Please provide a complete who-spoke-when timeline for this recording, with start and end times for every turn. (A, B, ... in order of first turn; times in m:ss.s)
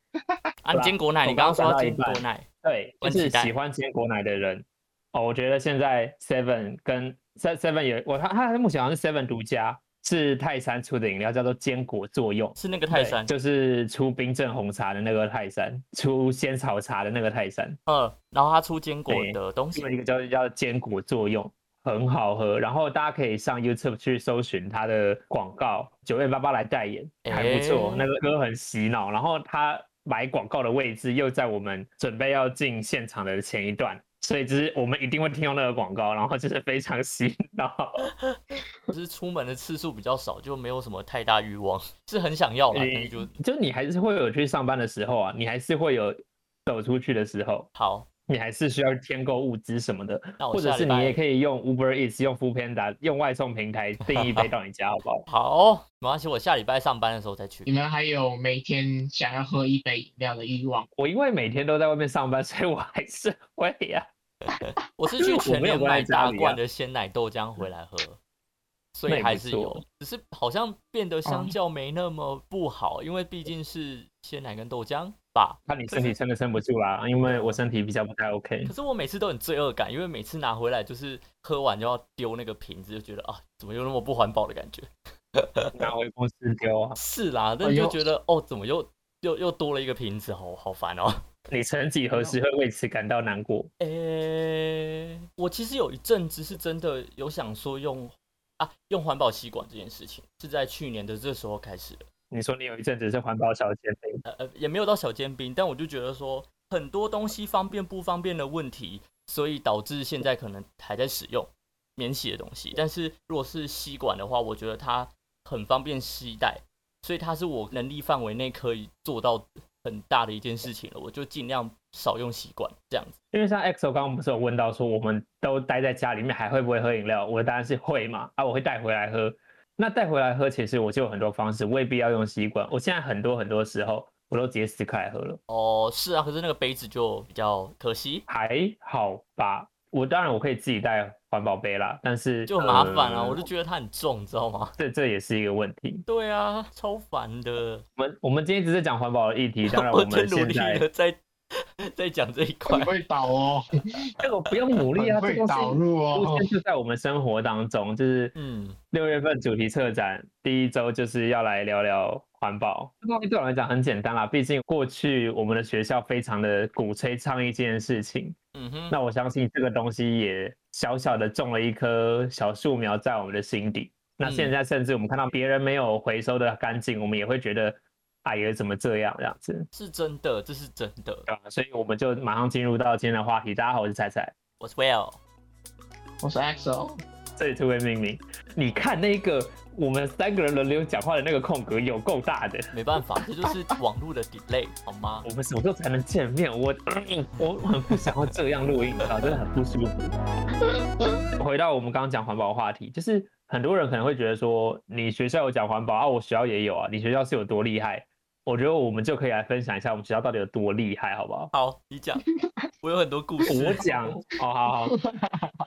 0:00.6-0:02.4 A
0:00.7-0:17.8 B
0:03.0-0:03.5 A
0:12.6-0:13.3 A
0:17.8-0:19.9 A
0:19.1-0:38.1 B
0:27.2-0:28.0 A
0:38.9-0:43.3 A
0:42.7-0:47.7 B
0:47.7-0:48.1 A
0:48.3-0:55.2 B
0:50.4-0:51.2 A
0:54.0-0:54.5 A
0:55.3-0:57.7 A
0:57.6-1:00.9 C
1:01.0-1:04.1 B
1:04.5-1:08.2 A
1:05.2-1:06.6 B
1:08.9-1:16.1 A
1:09.1-1:09.8 B
1:15.7-1:18.7 B
1:17.2-1:17.6 A
1:18.6-1:25.9 A
1:25.7-1:27.0 B
1:27.0-1:31.2 A
1:27.6-1:28.0 C
1:31.5-1:33.7 B
1:32.1-1:32.4 A
1:33.8-1:42.0 A
1:42.3-1:44.2 B
1:44.2-2:03.1 A
2:03.3-2:15.4 B
2:15.5-2:18.2 A
2:18.3-2:23.4 B
2:22.5-2:24.7 A
2:24.8-2:26.0 B
2:26.0-2:27.8 A
2:28.0-2:30.8 B
2:29.7-2:32.9 A
2:32.7-2:34.0 C
2:34.2-2:38.3 B
2:35.0-2:36.5 C
2:38.3-2:38.8 A
2:38.9-2:48.4 B
2:48.5-2:49.0 A
2:48.9-2:59.7 B
2:54.2-2:54.5 A
2:59.7-3:01.3 A
3:01.3-3:04.3 B
3:04.6-3:05.2 A
3:06.2-3:07.0 C
3:07.4-3:12.7 B
3:12.7-3:15.2 A
3:15.2-3:20.1 B
3:21.4-3:31.5 B
3:31.5-3:32.2 A
3:32.8-3:33.9 A
3:33.5-3:34.9 B
3:34.8-3:35.5 C